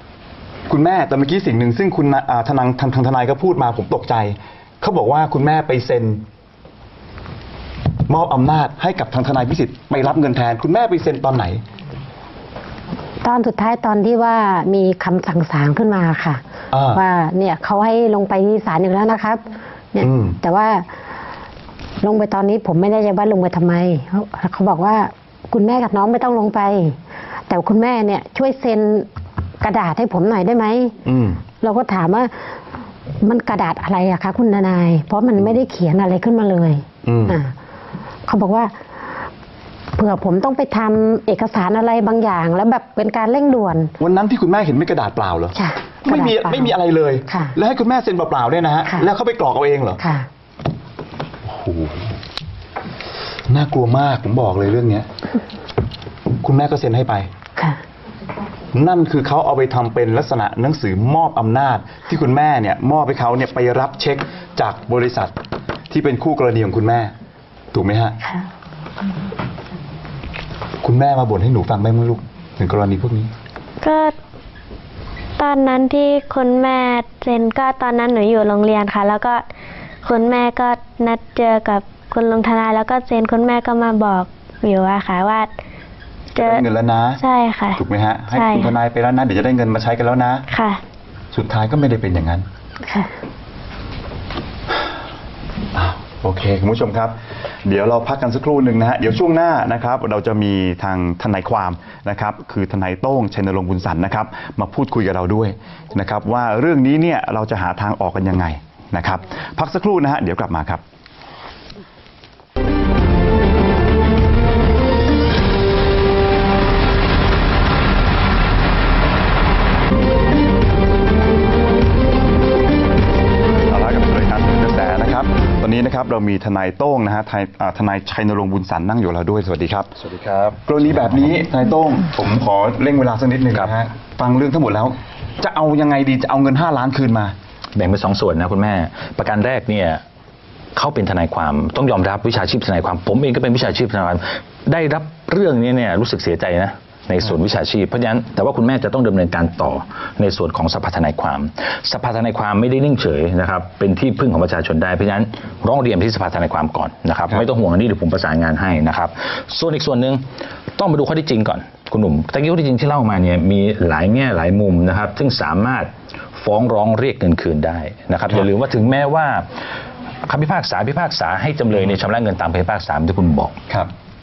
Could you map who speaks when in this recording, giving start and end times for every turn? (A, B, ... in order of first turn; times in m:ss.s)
0:00.7-0:06.2 A
0:08.1-0:11.6 A
0:13.2-0:20.9 B
0:16.7-0:17.0 A
0:20.0-0:20.4 A
0:22.0-0:27.0 B
0:27.5-0:29.1 B
0:29.6-0:31.0 B
0:31.0-0:31.4 A
0:31.6-0:32.3 B
0:33.2-0:37.5 B
0:37.0-0:37.4 A
0:38.3-0:38.8 B
0:40.0-0:43.9 B
0:44.0-0:50.0 A
0:45.6-0:46.8 B
0:47.3-0:47.6 B
0:50.0-0:50.3 B
0:51.4-0:52.2 A
0:53.5-0:55.1 A
0:56.4-0:57.3 A
0:58.7-1:05.4 A
1:05.9-1:07.1 A
1:07.7-1:08.2 A
1:10.8-1:13.3 A
1:13.8-1:14.1 C
1:15.4-1:19.4 C
1:20.0-1:25.5 C
1:26.3-1:26.6 C
1:26.4-1:27.2 A
1:27.2-1:28.7 C
1:27.8-1:30.4 A
1:30.5-1:30.8 C
1:31.3-1:32.5 A
1:32.8-1:33.1 B
1:35.7-1:50.8 A
2:03.7-2:09.9 A
2:10.0-2:11.3 D
2:10.7-2:17.3 A
2:17.8-2:20.0 D
2:20.8-2:40.2 D
2:40.8-2:49.5 D
2:50.3-2:53.6 D